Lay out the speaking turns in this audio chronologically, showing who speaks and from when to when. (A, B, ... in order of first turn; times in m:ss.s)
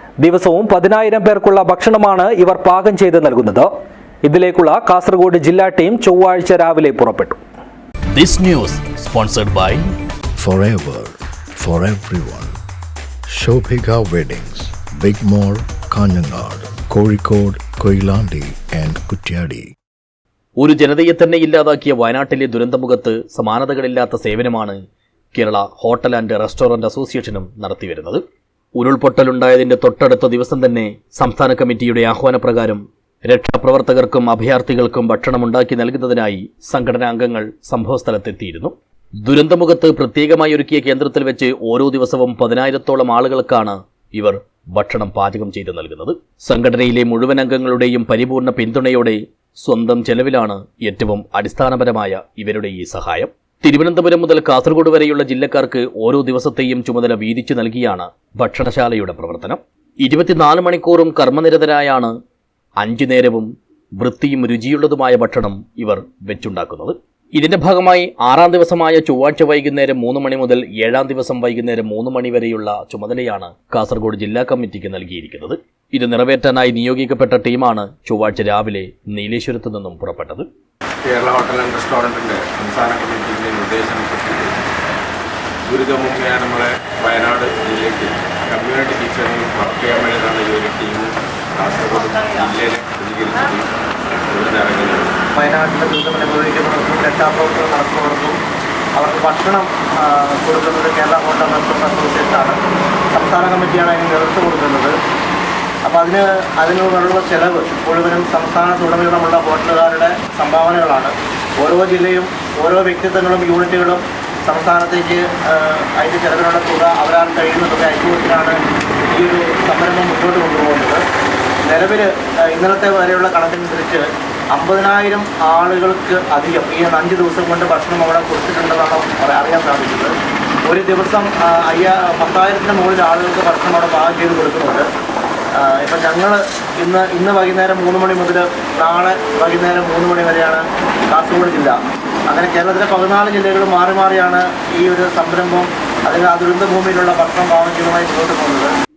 0:00.2-0:03.7 A
0:04.2-0:07.4 A
0:08.1-0:09.8 B
0:10.4-0:12.5 C
0:13.3-0:19.7 C
0:20.6-0:24.8 B
0:25.3-0:28.2 B
0:28.8-1:02.2 B
1:02.8-1:20.5 B
1:21.0-1:24.6 D
1:25.7-1:35.1 D
1:35.4-1:38.4 E
1:39.0-1:42.6 E
1:43.1-1:45.0 E
1:45.8-2:01.0 E
2:01.7-2:10.1 E
2:10.6-2:14.9 E
2:15.6-2:21.8 E
2:22.3-2:28.7 E